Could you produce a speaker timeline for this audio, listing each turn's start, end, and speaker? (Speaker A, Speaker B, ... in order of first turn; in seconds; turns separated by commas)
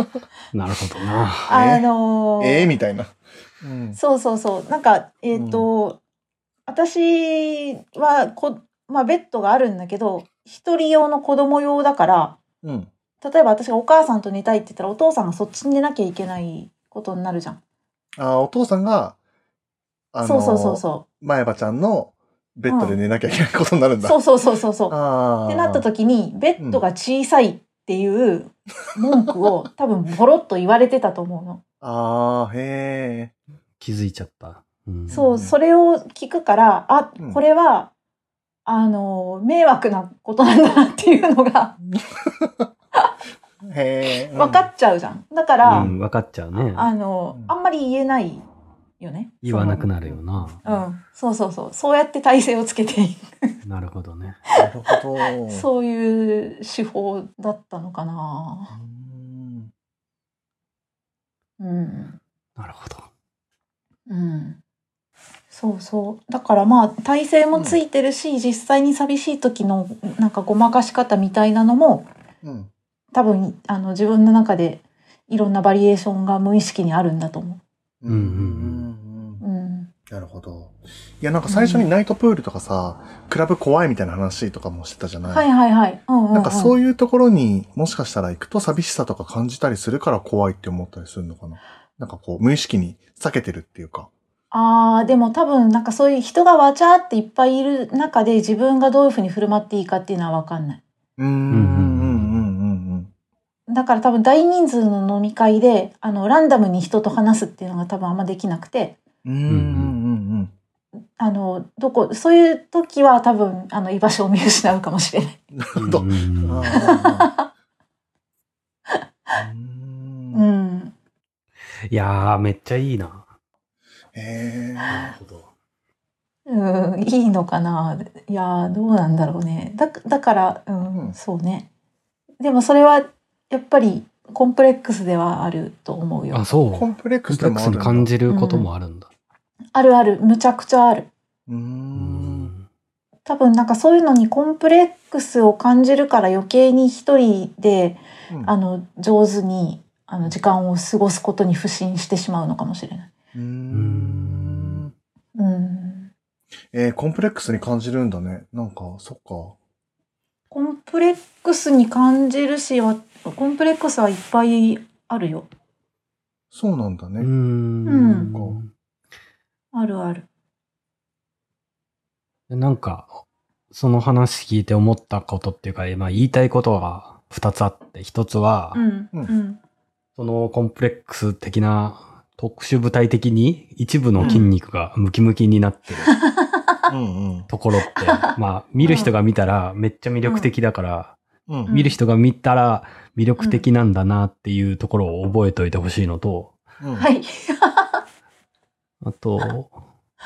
Speaker A: 0.5-1.5, Speaker B: 1.4-1.9, Speaker C: 1.5-2.7, Speaker B: 2.4-4.0, Speaker C: 3.9-6.0, Speaker B: 5.3-5.7, Speaker C: 6.7-12.4, Speaker B: 12.6-12.9, Speaker C: 13.2-17.6, Speaker B: 18.2-19.2, Speaker B: 20.1-24.2, Speaker C: 20.2-21.1, Speaker C: 22.7-23.0, Speaker C: 24.0-31.6, Speaker B: 24.9-25.9, Speaker B: 26.6-26.8, Speaker B: 31.8-33.3, Speaker A: 33.8-35.2, Speaker B: 35.1-35.5, Speaker C: 35.1-37.9, Speaker C: 38.6-41.8, Speaker B: 42.2-42.7, Speaker B: 43.6-44.7, Speaker C: 44.2-45.9, Speaker B: 45.6-45.9, Speaker A: 45.6-46.9, Speaker C: 46.6-48.5, Speaker C: 49.0-49.9, Speaker A: 49.4-50.6, Speaker B: 50.0-50.9, Speaker C: 50.6-53.6, Speaker A: 53.6-54.4, Speaker B: 54.5-55.7, Speaker C: 55.3-58.8, Speaker B: 58.7-59.7, Speaker C: 61.6-62.2, Speaker A: 62.6-63.1, Speaker C: 64.1-64.6, Speaker C: 65.5-72.1, Speaker B: 67.5-67.8, Speaker B: 72.4-72.7, Speaker C: 73.1-77.6, Speaker B: 78.0-79.4, Speaker A: 78.1-78.9, Speaker C: 79.4-79.9, Speaker B: 80.1-85.5, Speaker C: 81.5-81.9, Speaker C: 85.2-86.8, Speaker B: 86.3-94.1, Speaker C: 94.5-100.8, Speaker B: 101.2-103.1, Speaker A: 101.5-102.4, Speaker C: 103.7-109.0, Speaker B: 109.2-110.5, Speaker A: 109.5-110.0, Speaker C: 111.2-115.4, Speaker B: 115.5-117.3, Speaker A: 115.8-116.8, Speaker C: 116.7-117.5, Speaker B: 119.3-120.5, Speaker C: 120.3-120.9, Speaker A: 121.9-123.2, Speaker B: 124.1-125.2, Speaker A: 124.9-125.5, Speaker C: 126.5-131.7, Speaker C: 132.4-136.5, Speaker A: 136.3-139.1, Speaker B: 136.7-138.1, Speaker C: 138.3-138.7, Speaker C: 139.7-141.1, Speaker B: 141.5-142.5, Speaker A: 142.0-142.6, Speaker C: 143.2-153.1, Speaker B: 153.3-154.9, Speaker A: 153.7-154.8, Speaker C: 155.4-156.1, Speaker B: 156.7-159.6, Speaker C: 160.5-165.5, Speaker B: 166.5-167.3, Speaker A: 167.2-168.7, Speaker C: 167.9-168.3, Speaker B: 168.3-168.6, Speaker C: 169.7-170.3, Speaker A: 172.5-173.2, Speaker A: 173.7-178.8, Speaker C: 178.7-179.6, Speaker A: 180.2-186.1, Speaker B: 184.2-184.5, Speaker C: 186.1-186.8, Speaker B: 186.9-187.5, Speaker A: 187.5-196.6, Speaker C: 187.9-189.1, Speaker C: 190.2-190.5, Speaker B: 191.5-191.7, Speaker C: 191.7-192.0, Speaker C: 193.4-193.7, Speaker B: 196.8-197.1, Speaker C: 197.0-198.0, Speaker A: 199.0-199.8